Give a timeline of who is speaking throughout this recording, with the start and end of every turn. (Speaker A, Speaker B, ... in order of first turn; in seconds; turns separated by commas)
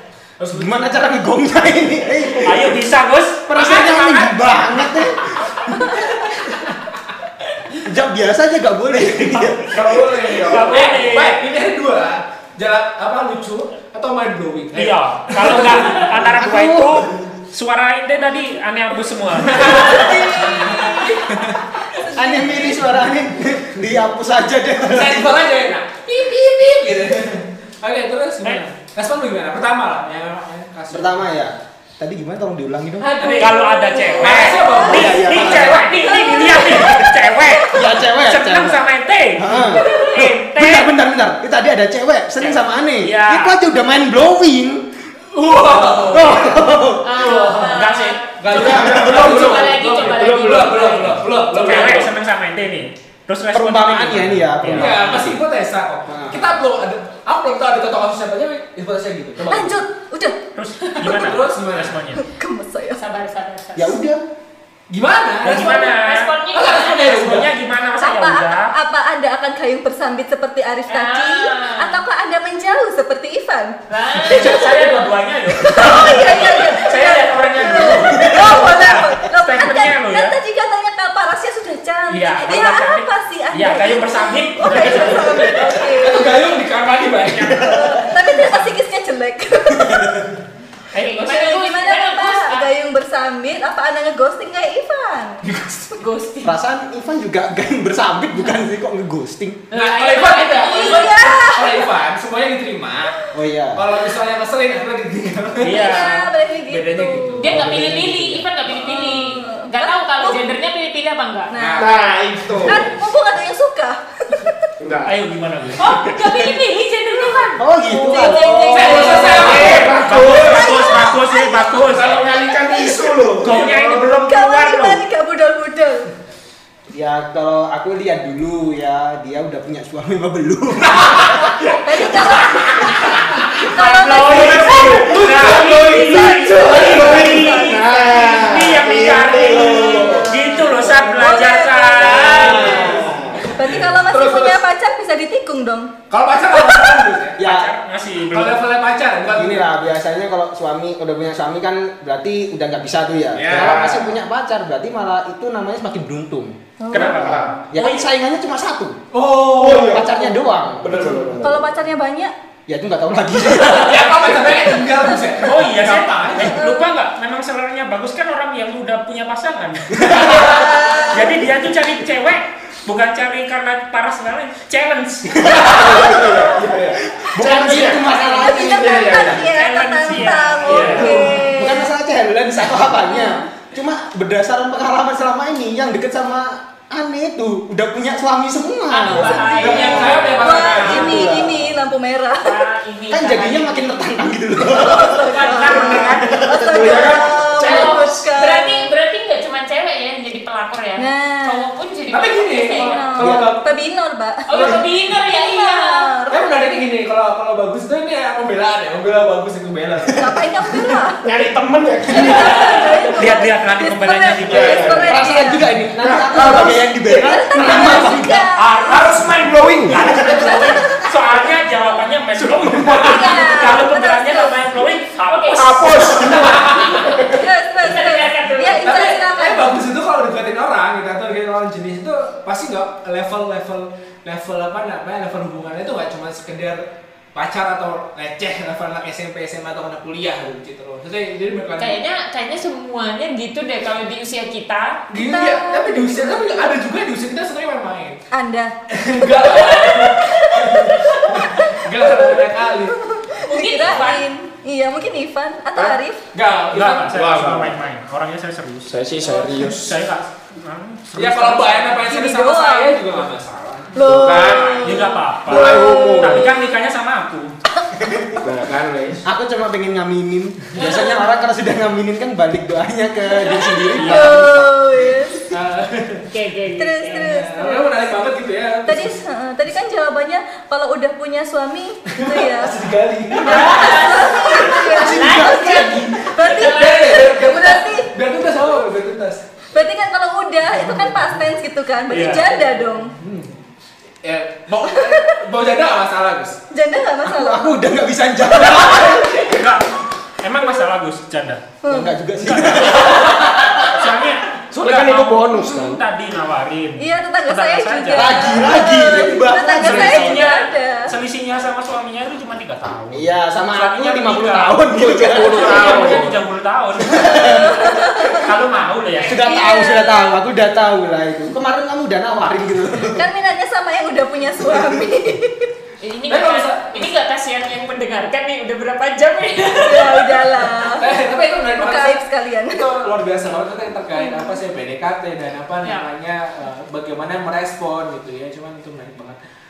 Speaker A: 0.4-0.8, Speaker B: 0.5-2.8, Speaker C: 2.4-4.6, Speaker B: 3.5-5.7, Speaker A: 3.6-3.9, Speaker A: 5.9-6.8, Speaker B: 7.8-10.3, Speaker A: 9.7-16.1, Speaker D: 10.2-10.7, Speaker C: 10.4-11.4, Speaker C: 14.7-20.1, Speaker B: 16.3-17.1, Speaker A: 19.4-21.6, Speaker E: 19.9-21.3, Speaker E: 21.9-22.8, Speaker B: 22.1-25.5, Speaker A: 24.8-31.3, Speaker B: 30.9-33.3, Speaker F: 33.0-34.6, Speaker C: 33.4-40.9, Speaker A: 34.2-36.0, Speaker E: 34.5-34.9, Speaker B: 34.8-36.0, Speaker E: 36.0-37.1, Speaker B: 37.7-38.8, Speaker B: 39.3-44.9, Speaker C: 42.4-43.6, Speaker A: 45.3-46.6, Speaker B: 45.7-47.0, Speaker F: 47.0-48.2, Speaker A: 47.1-47.8, Speaker C: 47.6-48.6, Speaker A: 48.4-52.1, Speaker B: 48.5-48.9, Speaker D: 48.6-50.9, Speaker F: 48.8-51.4, Speaker C: 51.4-55.2, Speaker D: 51.6-52.1, Speaker B: 53.5-55.4, Speaker A: 54.7-59.8, Speaker B: 56.1-56.6, Speaker E: 59.5-60.4, Speaker C: 60.5-62.2, Speaker A: 61.0-61.9, Speaker E: 62.1-63.0, Speaker F: 62.9-64.0, Speaker B: 63.8-64.2, Speaker A: 64.9-66.0, Speaker C: 65.4-66.3, Speaker F: 65.4-67.2, Speaker A: 66.5-67.5, Speaker C: 67.0-68.7, Speaker E: 68.0-73.8, Speaker F: 70.9-72.0, Speaker F: 73.9-75.0, Speaker C: 74.2-80.3, Speaker E: 74.3-75.0, Speaker E: 75.6-86.5, Speaker B: 78.0-78.5, Speaker C: 82.1-85.8, Speaker A: 85.4-88.6, Speaker C: 87.6-88.0, Speaker E: 87.6-90.2, Speaker B: 89.8-90.1, Speaker F: 90.9-92.7, Speaker E: 91.0-95.5, Speaker A: 95.4-95.9, Speaker F: 96.0-96.5, Speaker B: 96.4-99.6, Speaker F: 99.7-101.5, Speaker A: 99.7-106.0, Speaker E: 100.7-101.9, Speaker B: 103.3-103.8, Speaker C: 105.6-106.3, Speaker E: 105.7-107.6, Speaker A: 106.7-109.1, Speaker F: 107.4-111.5, Speaker E: 108.8-110.5, Speaker E: 111.5-112.0, Speaker A: 111.5-113.0, Speaker D: 111.8-112.8, Speaker E: 112.6-114.5, Speaker D: 114.8-115.2, Speaker C: 115.0-115.9, Speaker F: 115.8-119.5, Speaker E: 117.3-121.9, Speaker B: 117.6-119.3, Speaker A: 118.7-120.2, Speaker C: 119.0-122.5, Speaker D: 119.2-121.0, Speaker D: 121.8-124.3, Speaker E: 122.5-123.1, Speaker C: 123.4-125.0, Speaker E: 124.2-126.1, Speaker B: 126.9-131.5, Speaker A: 131.2-133.2, Speaker E: 131.4-135.2, Speaker C: 133.7-142.9, Speaker D: 134.2-141.2, Speaker A: 138.0-138.6, Speaker E: 139.3-142.9, Speaker A: 142.0-144.6, Speaker B: 142.3-143.2, Speaker D: 142.5-143.3, Speaker E: 143.5-145.9, Speaker A: 146.1-147.4, Speaker E: 146.6-147.0, Speaker B: 147.4-147.7, Speaker C: 147.4-148.6, Speaker A: 148.3-149.7, Speaker B: 149.3-156.6, Speaker D: 153.3-154.1, Speaker A: 153.4-153.9, Speaker E: 156.8-157.6, Speaker C: 156.9-158.0, Speaker D: 157.0-157.7, Speaker B: 157.7-158.9, Speaker A: 159.1-160.1, Speaker D: 159.6-160.2, Speaker B: 159.7-161.2, Speaker D: 160.8-161.7, Speaker E: 161.4-162.3, Speaker B: 162.7-164.7, Speaker A: 163.5-166.6, Speaker E: 165.0-165.3, Speaker C: 165.4-175.5, Speaker E: 166.5-166.9, Speaker B: 170.0-170.5, Speaker A: 170.2-170.9, Speaker E: 170.3-171.3, Speaker D: 175.4-179.5, Speaker B: 175.4-176.6, Speaker B: 177.2-179.4, Speaker E: 177.4-181.9, Speaker C: 179.5-181.2, Speaker D: 180.6-181.4, Speaker B: 180.8-191.8, Speaker E: 183.0-183.4, Speaker F: 188.9-191.2, Speaker E: 189.1-192.6, Speaker A: 189.6-191.4, Speaker F: 192.4-194.1, Speaker B: 193.1-197.2, Speaker E: 194.7-198.9, Speaker F: 194.9-195.9, Speaker C: 195.2-196.4, Speaker D: 196.0-198.1, Speaker F: 197.6-203.1, Speaker E: 201.0-201.7, Speaker A: 202.1-203.6, Speaker E: 202.6-206.6, Speaker B: 203.2-203.5, Speaker F: 204.5-206.1, Speaker A: 206.3-210.3, Speaker E: 210.2-211.2, Speaker D: 211.2-213.1, Speaker E: 212.1-215.6, Speaker A: 212.2-212.8, Speaker C: 213.1-215.0, Speaker D: 214.4-215.2, Speaker B: 215.0-218.5, Speaker D: 216.0-217.9, Speaker E: 216.6-219.1, Speaker D: 218.6-220.6, Speaker C: 219.1-226.4, Speaker E: 220.3-221.1, Speaker D: 222.4-223.5, Speaker E: 223.0-224.8, Speaker F: 225.2-226.3, Speaker D: 225.5-227.4, Speaker A: 226.3-227.1, Speaker E: 227.3-229.8, Speaker F: 227.8-229.6, Speaker A: 228.8-236.8, Speaker A: 237.3-242.0, Speaker F: 241.8-245.0, Speaker A: 245.1-248.2, Speaker E: 245.2-246.6, Speaker E: 248.3-248.7, Speaker A: 248.9-253.0, Speaker E: 249.3-256.2, Speaker F: 253.5-254.2, Speaker D: 255.7-256.0, Speaker A: 256.3-257.2, Speaker C: 256.7-261.9, Speaker D: 257.1-257.8, Speaker D: 258.9-260.0, Speaker A: 261.1-264.0, Speaker E: 262.0-263.0, Speaker E: 263.9-266.7, Speaker D: 264.0-266.6, Speaker C: 264.8-267.5, Speaker D: 268.4-269.2, Speaker B: 269.2-274.6, Speaker F: 270.7-271.3, Speaker E: 270.8-271.1, Speaker E: 273.9-275.4, Speaker C: 273.9-274.6, Speaker A: 275.5-276.2, Speaker F: 276.3-277.3, Speaker E: 276.7-277.9, Speaker A: 277.1-279.1, Speaker E: 278.9-282.8, Speaker A: 282.1-285.1, Speaker E: 283.3-288.1, Speaker F: 283.4-287.7, Speaker B: 284.9-286.2, Speaker A: 286.4-289.4, Speaker E: 289.7-293.1, Speaker A: 290.7-291.4, Speaker C: 292.1-292.6, Speaker A: 292.1-292.5, Speaker A: 293.2-293.6, Speaker A: 294.2-296.6, Speaker E: 296.7-297.8, Speaker B: 297.2-299.4, Speaker E: 298.7-299.4, Speaker A: 298.8-299.6, Speaker C: 299.4-301.6, Speaker E: 301.8-302.1, Speaker B: 301.9-303.5, Speaker C: 302.4-308.9, Speaker D: 304.7-306.0, Speaker E: 307.0-311.1, Speaker B: 308.1-310.6, Speaker C: 309.7-319.4, Speaker B: 313.1-316.3, Speaker D: 314.9-316.4, Speaker B: 317.0-317.9, Speaker E: 317.4-318.5, Speaker B: 319.2-323.3, Speaker E: 319.3-320.3, Speaker F: 319.4-319.9, Speaker E: 323.1-325.7, Speaker F: 326.0-330.4, Speaker A: 326.3-327.1, Speaker E: 329.8-331.1, Speaker A: 330.9-339.4, Speaker E: 331.7-332.9, Speaker E: 334.1-334.6